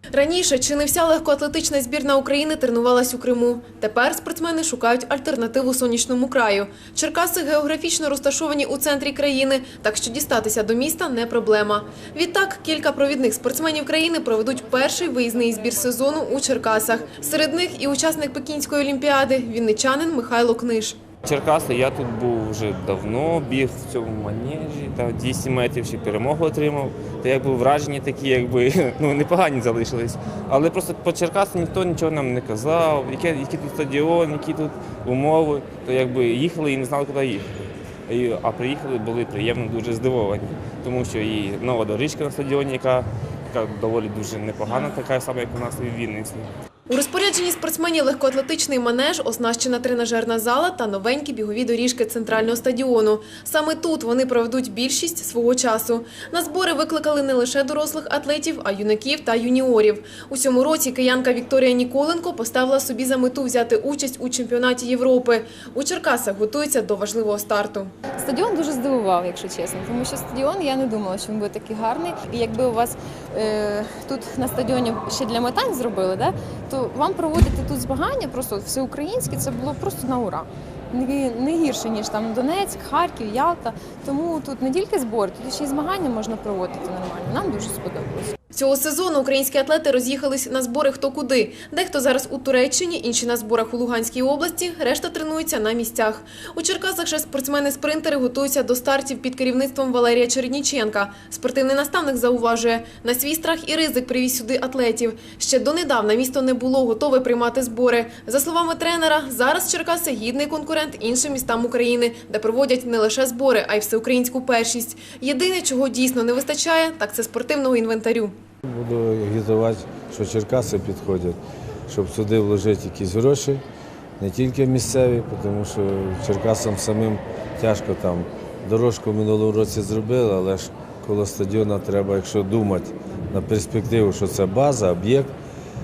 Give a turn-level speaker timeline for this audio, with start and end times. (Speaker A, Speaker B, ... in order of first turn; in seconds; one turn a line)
Speaker A: 0.1-21.0
Speaker B: 21.2-37.5
Speaker B: 38.1-46.5
Speaker A: 46.9-67.9
Speaker C: 68.2-88.3
Speaker A: 88.5-118.3
Speaker D: 118.7-121.4
Speaker D: 121.9-123.6
Speaker D: 124.2-135.3